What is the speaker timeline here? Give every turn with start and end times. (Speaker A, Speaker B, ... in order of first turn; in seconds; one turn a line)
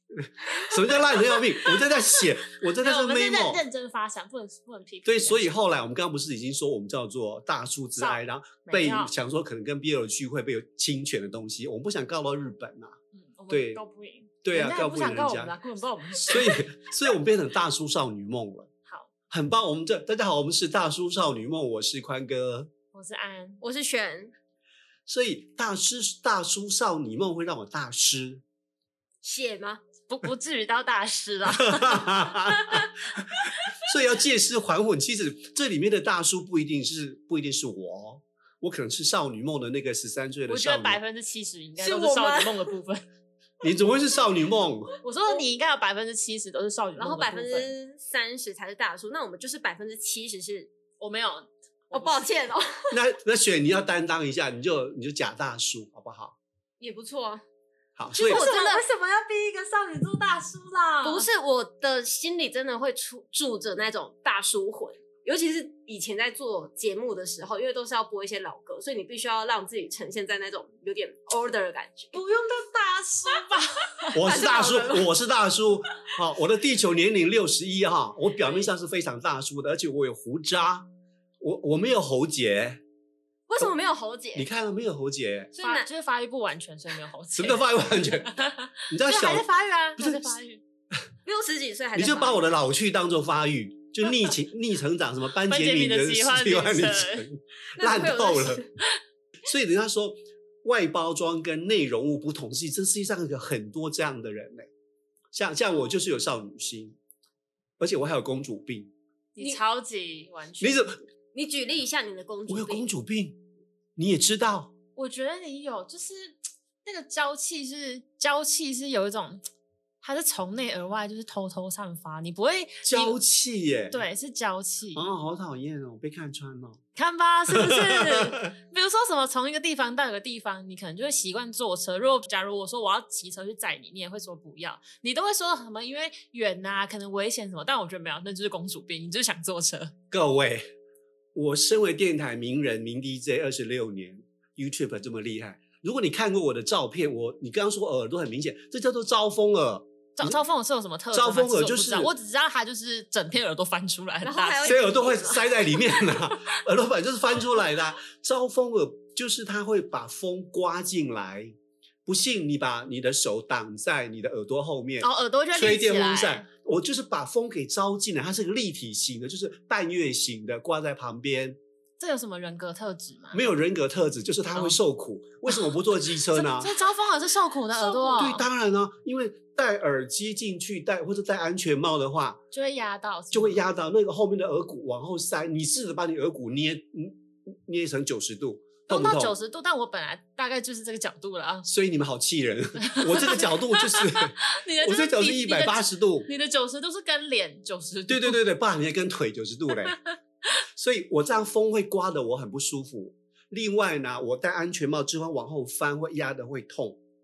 Speaker A: 0.1-3.6
Speaker B: 0.7-2.0
Speaker B: 2.6-5.6
Speaker A: 5.0-13.0
Speaker B: 8.0-9.1
Speaker B: 13.1-16.7
Speaker A: 13.5-13.8
Speaker A: 14.4-15.6
Speaker A: 16.3-18.7
Speaker A: 19.3-22.7
Speaker B: 22.9-23.6
Speaker C: 23.6-24.3
Speaker A: 25.1-28.4
Speaker C: 29.2-29.8
Speaker B: 30.1-32.8
Speaker A: 31.6-41.0
Speaker B: 40.5-43.0
Speaker C: 41.8-42.8
Speaker A: 43.6-45.0
Speaker B: 45.0-47.7
Speaker C: 47.0-50.7
Speaker B: 51.0-52.3
Speaker C: 51.9-53.0
Speaker A: 52.9-56.4
Speaker C: 56.8-57.4
Speaker A: 58.0-58.4
Speaker C: 58.1-59.5
Speaker B: 58.2-58.9
Speaker B: 59.6-61.3
Speaker C: 61.0-72.2
Speaker B: 72.1-74.4
Speaker A: 74.1-80.9
Speaker C: 74.2-75.1
Speaker A: 81.4-82.8
Speaker C: 83.5-84.5
Speaker A: 84.3-85.5
Speaker C: 85.5-85.9
Speaker B: 85.6-90.6
Speaker A: 87.4-88.3
Speaker A: 88.9-90.3
Speaker C: 91.2-92.5
Speaker A: 92.0-98.6
Speaker B: 95.4-97.3
Speaker C: 97.7-98.7
Speaker A: 99.5-104.7
Speaker A: 105.3-107.0
Speaker A: 107.8-108.9
Speaker B: 109.3-110.9
Speaker A: 110.6-111.0
Speaker C: 111.3-112.9
Speaker A: 112.5-113.4
Speaker A: 114.0-114.7
Speaker B: 115.0-119.4
Speaker B: 120.0-123.2
Speaker A: 122.8-124.0
Speaker B: 123.9-125.1
Speaker A: 124.9-126.8
Speaker B: 127.0-139.9
Speaker A: 127.5-128.2
Speaker A: 140.1-140.7
Speaker A: 141.3-150.4
Speaker B: 150.2-154.9
Speaker A: 151.1-152.1
Speaker C: 154.2-155.9
Speaker A: 154.7-171.6
Speaker B: 165.0-166.4
Speaker B: 172.0-173.4
Speaker A: 173.3-176.7
Speaker B: 174.5-174.8
Speaker B: 176.3-178.4
Speaker C: 177.9-178.3
Speaker A: 178.1-182.4
Speaker B: 182.5-183.7
Speaker A: 183.3-189.3
Speaker B: 188.9-191.7
Speaker A: 191.7-196.3
Speaker B: 192.8-198.4
Speaker A: 198.1-200.0
Speaker A: 200.8-207.0